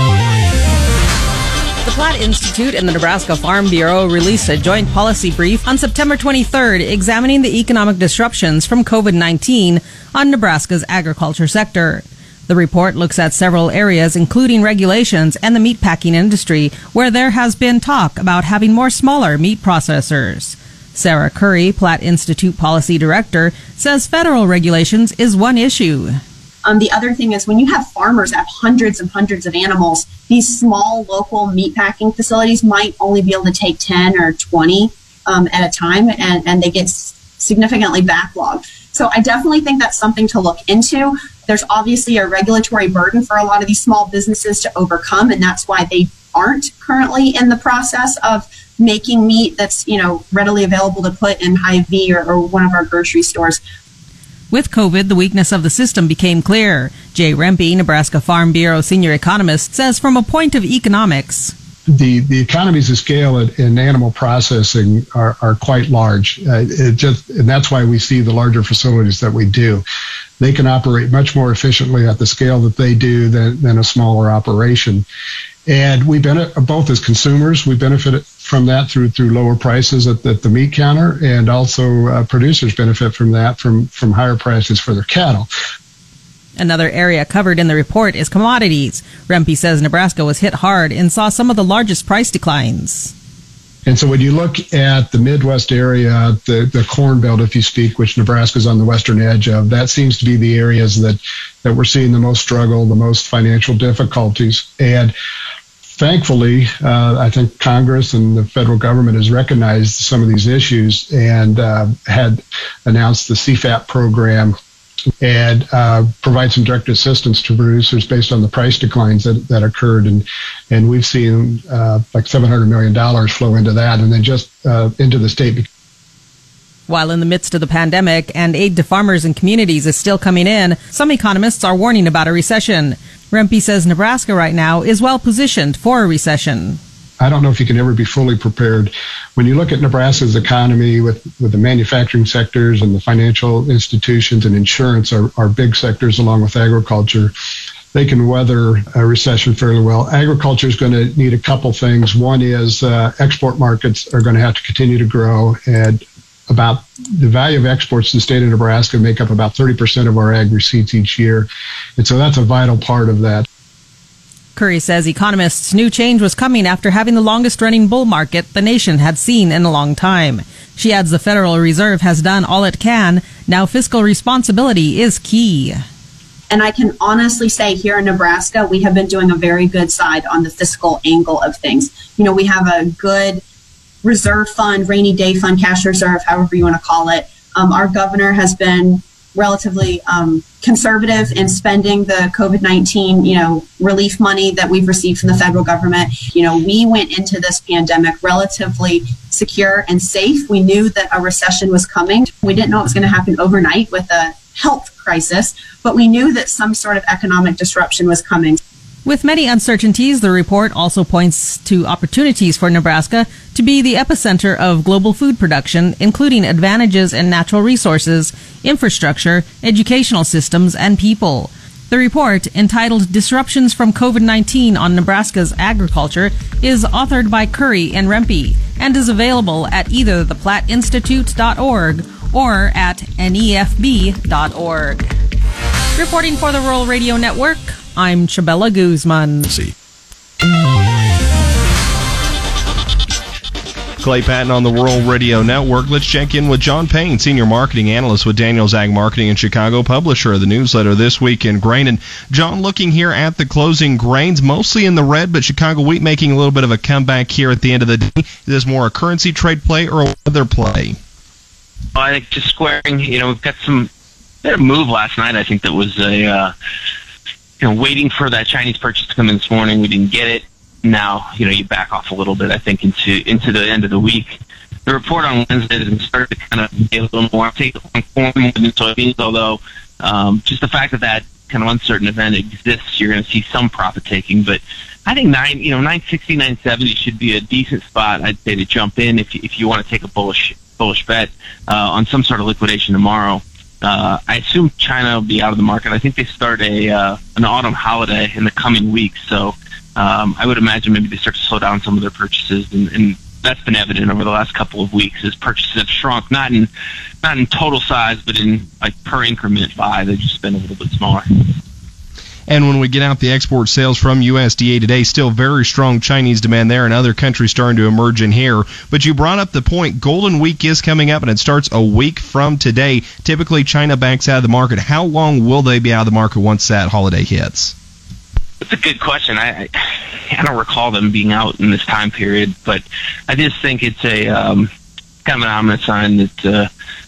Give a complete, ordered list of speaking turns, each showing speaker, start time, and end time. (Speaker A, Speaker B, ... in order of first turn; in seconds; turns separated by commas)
Speaker A: 1.8-26.2, Speaker B: 26.6-53.6, Speaker A: 54.5-61.5, Speaker C: 61.9-69.8, Speaker C: 70.4-75.0, Speaker C: 75.7-85.5, Speaker A: 86.6-93.1, Speaker C: 93.8-105.1, Speaker C: 106.0-114.5, Speaker C: 115.2-125.7, Speaker A: 126.9-136.8, Speaker C: 137.2-147.3, Speaker C: 147.9-163.4, Speaker A: 164.6-175.8, Speaker B: 176.5-183.4, Speaker B: 184.0-208.6, Speaker A: 209.0-235.1, Speaker A: 235.9-239.5, Speaker D: 244.0-261.0, Speaker E: 261.9-263.9, Speaker E: 264.4-266.5, Speaker E: 267.6-306.7, Speaker E: 307.2-311.5, Speaker D: 312.5-327.7, Speaker E: 328.6-329.7, Speaker E: 330.3-334.7, Speaker E: 335.2-336.7